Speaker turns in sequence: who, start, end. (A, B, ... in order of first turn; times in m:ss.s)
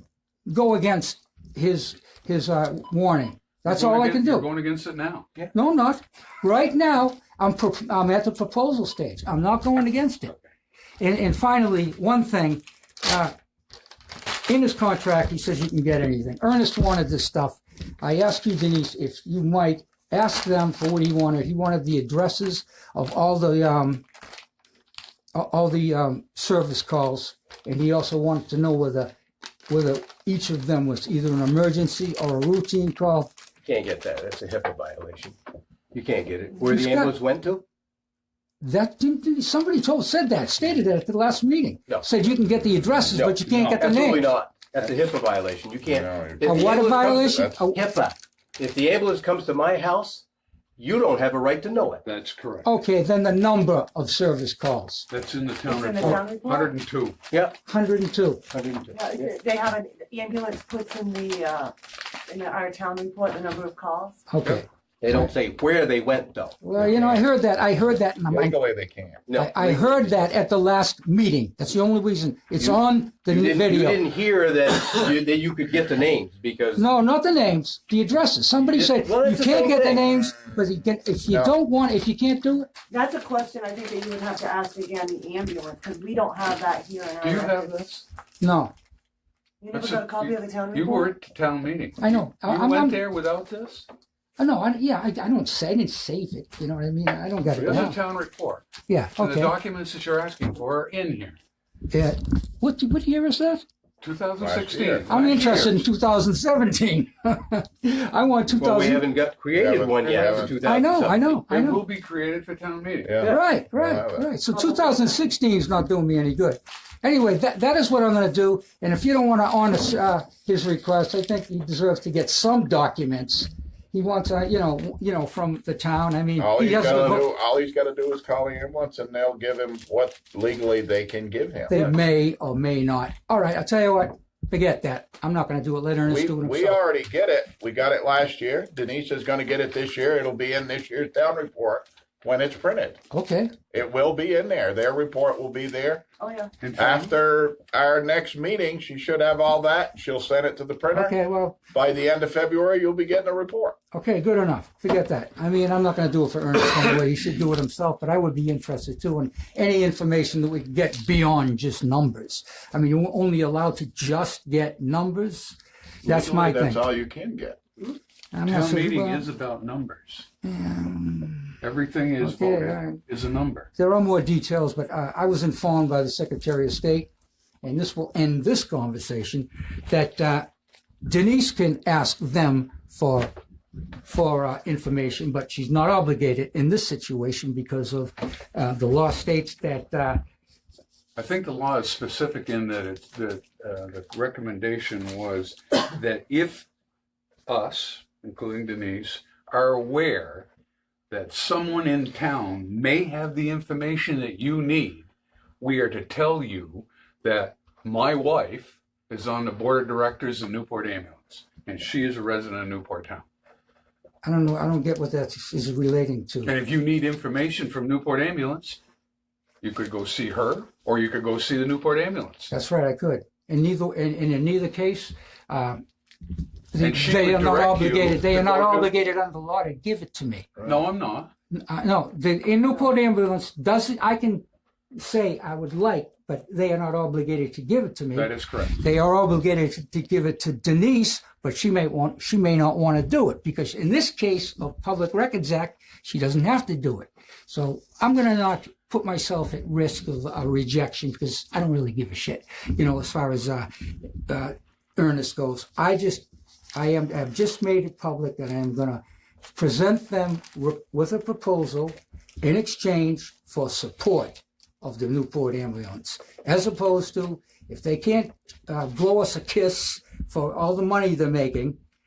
0:00.5-0:04.5 A
0:03.6-0:05.4 B
0:05.5-0:10.3 A
0:11.0-0:13.3 A
0:14.5-0:24.0 A
0:25.3-0:29.1 A
0:29.7-0:33.3 A
0:33.6-0:35.4 C
0:35.9-0:37.6 C
0:36.7-0:37.1 A
0:38.6-0:44.3 A
0:43.1-0:50.3 C
0:43.4-0:44.2 B
0:45.9-0:47.6 D
0:46.4-0:47.8 A
0:50.8-0:52.0 C
0:52.0-0:52.7 B
0:52.6-0:55.1 A
0:55.1-0:57.2 B
0:55.7-0:56.8 E
0:57.3-0:57.6 C
0:57.6-0:58.4 A
0:58.5-0:59.3 C
0:58.9-1:04.2 E
1:04.3-1:05.3 A
1:05.0-1:06.6 C
1:06.6-1:08.6 A
1:06.8-1:07.2 D
1:08.3-1:09.3 D
1:09.3-1:10.3 C
1:09.3-1:14.0 A
1:13.3-1:16.8 C
1:16.8-1:22.7 A
1:18.6-1:20.1 C
1:22.9-1:27.8 E
1:27.2-1:28.1 B
1:28.4-1:28.7 A
1:29.6-1:31.1 E
1:29.7-1:33.9 B
1:32.0-1:33.0 A
1:34.4-1:38.0 A
1:37.6-1:38.7 B
1:38.9-1:39.5 A
1:39.2-1:41.4 B
1:41.9-1:43.6 A
1:44.0-1:45.8 B
1:44.4-1:45.4 D
1:45.1-1:49.1 A
1:48.6-1:51.4 C
1:49.5-1:50.6 D
1:50.0-1:50.6 B
1:50.6-1:51.8 A
1:51.5-1:53.2 B
1:53.0-1:54.3 D
1:53.2-2:07.2 A
1:54.5-1:55.1 E
2:06.4-2:11.8 D
2:06.8-2:07.2 C
2:11.7-2:16.8 A
2:16.1-2:23.0 D
2:23.1-2:23.5 A
2:23.7-2:26.0 D
2:26.2-2:26.5 E
2:26.6-2:27.1 B
2:26.8-2:31.2 D
2:30.9-2:31.6 A
2:31.7-2:33.8 D
2:33.9-2:46.8 A
2:46.0-2:47.6 D
2:48.3-2:49.3 A
2:48.5-2:50.3 B
2:50.4-2:51.6 A
2:51.6-2:53.7 B
2:52.2-2:53.0 A
2:53.8-2:57.1 A
2:57.6-3:00.5 A
3:01.0-3:03.3 A
3:04.0-3:10.2 A
3:11.2-3:16.7 B
3:17.5-3:20.5 B
3:21.1-3:33.3 B
3:34.2-3:36.5 A
3:36.4-3:38.8 B
3:39.6-3:42.5 B
3:42.5-3:45.8 A
3:46.7-3:50.6 A
3:46.8-3:48.9 B
3:50.6-3:51.3 B
3:51.5-4:19.0 A
3:58.2-3:58.8 B
4:19.5-4:31.8 A